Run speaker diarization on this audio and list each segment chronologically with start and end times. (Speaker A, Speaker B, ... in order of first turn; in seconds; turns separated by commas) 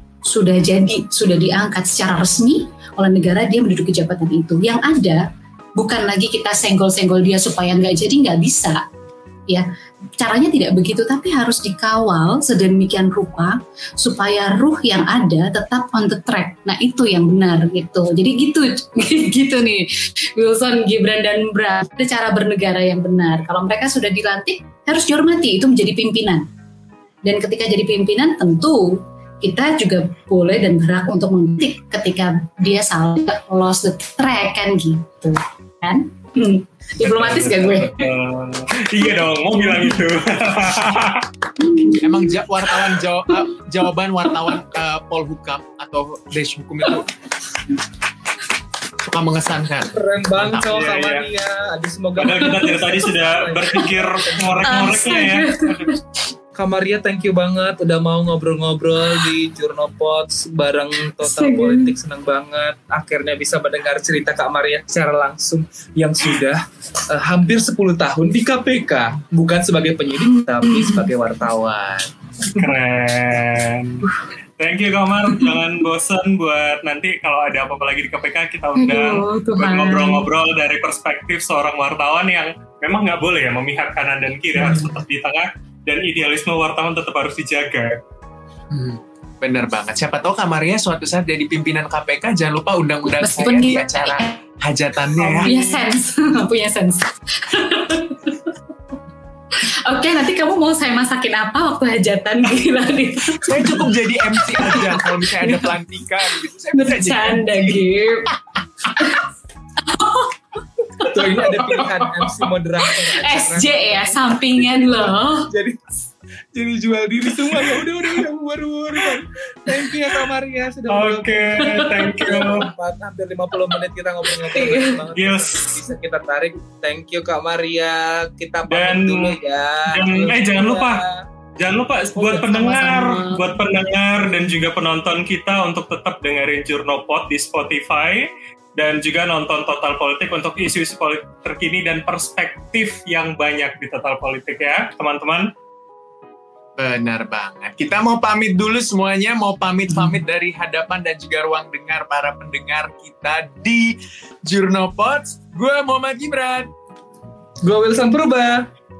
Speaker A: 0.2-8.8, Speaker A: 10.2-26.5, Speaker A: 27.2-38.1, Speaker B: 37.0-41.3, Speaker A: 39.0-40.0, Speaker A: 41.6-42.4, Speaker C: 41.9-47.1, Speaker C: 49.1-50.9, Speaker D: 49.9-54.6, Speaker B: 50.7-51.3, Speaker B: 52.2-55.8, Speaker A: 54.6-56.2, Speaker D: 56.5-72.7, Speaker A: 61.2-61.9, Speaker B: 72.5-74.1, Speaker B: 74.6-88.0, Speaker A: 78.8-80.2, Speaker C: 88.7-95.5, Speaker A: 93.1-94.4, Speaker A: 95.3-98.5, Speaker A: 99.6-105.8, Speaker C: 103.4-108.0, Speaker A: 106.7-108.3, Speaker A: 108.9-109.2, Speaker A: 109.8-110.3, Speaker A: 111.0-111.9, Speaker D: 111.0-115.8, Speaker A: 112.8-115.5, Speaker D: 116.5-131.2, Speaker B: 120.9-122.7, Speaker A: 121.6-122.6, Speaker A: 124.5-125.0, Speaker B: 125.2-125.8, Speaker B: 128.7-131.0, Speaker B: 131.6-145.5, Speaker D: 132.2-133.2, Speaker A: 132.5-133.5, Speaker C: 146.8-156.7, Speaker D: 157.6-158.7